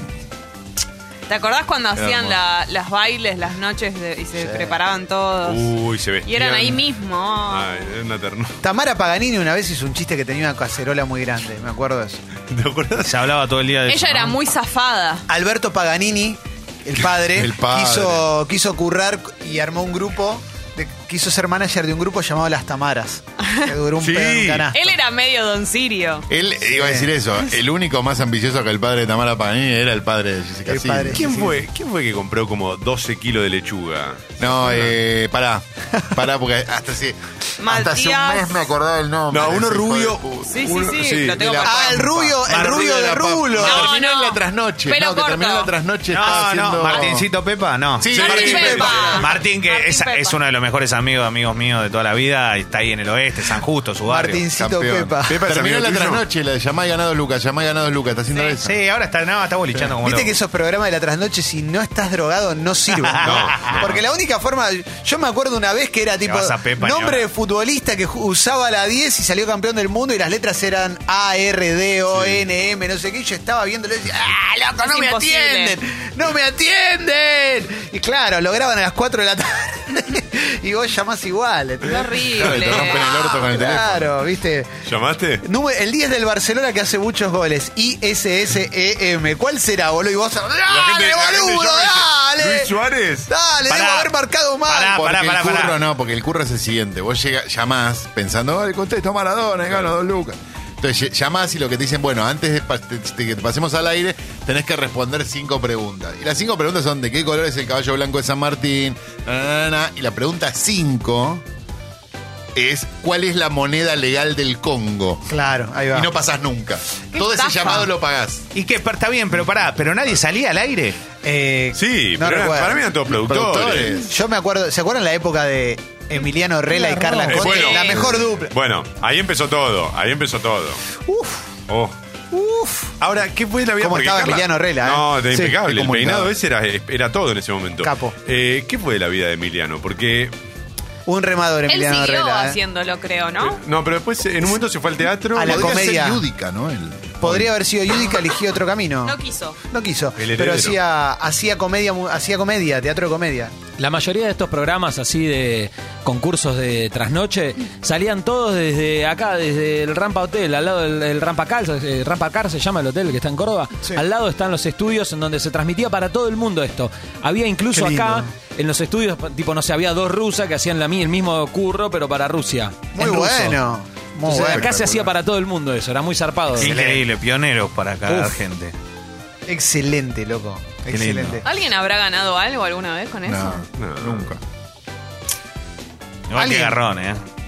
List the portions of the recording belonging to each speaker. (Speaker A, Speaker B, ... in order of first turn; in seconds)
Speaker A: 1.3-5.7, 6.2-7.8, 13.9-15.2, 23.4-23.7, 24.7-26.2, 37.6-38.6, 40.5-42.1, 43.6-45.7, 48.1-50.4, 74.8-75.8, 81.8-83.4, 117.1-117.9, 127.2-128.0, 141.7-143.6, 149.0-149.6, 181.4-183.6
Speaker B: 1.9-2.4, 17.3-18.3, 26.3-31.3, 34.4-40.7, 41.2-47.3, 48.0-49.1, 54.5-58.8, 82.3-84.2, 94.9-111.4, 112.5-115.3, 115.9-118.5, 123.1-124.1, 135.6-136.3, 145.4-147.5, 174.5-175.1, 183.2-184.4
Speaker C: 4.3-4.8, 8.6-12.2, 15.3-24.9, 26.7-27.1, 30.6-31.6, 41.6-44.0, 48.2-49.2, 54.0-55.4, 60.0-84.7, 85.4-92.8, 93.3-95.0, 115.3-116.1, 121.2-122.9, 123.9-128.5, 131.1-131.5, 132.3-133.0, 133.8-135.6, 137.8-138.1, 141.1-142.6, 145.3-146.2, 147.2-149.2, 149.7-153.6, 167.7-168.3, 172.9-174.7, 176.6-177.0, 179.5-181.4, 186.3-186.8
Speaker D: 5.4-6.8, 7.5-8.6, 12.5-13.2, 24.0-24.6, 31.1-34.9, 39.3-41.6, 48.1-49.0, 55.3-56.2, 63.2-63.9, 84.8-85.4, 90.7-93.3, 121.7-123.9, 127.2-130.8, 131.7-131.9, 133.0-140.3, 143.4-145.8, 150.2-150.8, 183.8-184.3
Speaker E: 13.0-14.4, 42.5-42.9, 46.1-48.2, 49.1-54.4, 58.6-60.4, 63.0-63.8, 66.2-67.3, 93.7-94.1, 94.7-95.8, 118.5-121.0, 176.6-178.7, 180.9-181.4, 186.3-187.2
Speaker F: 153.8-173.6, 174.2-176.8, 178.1-178.4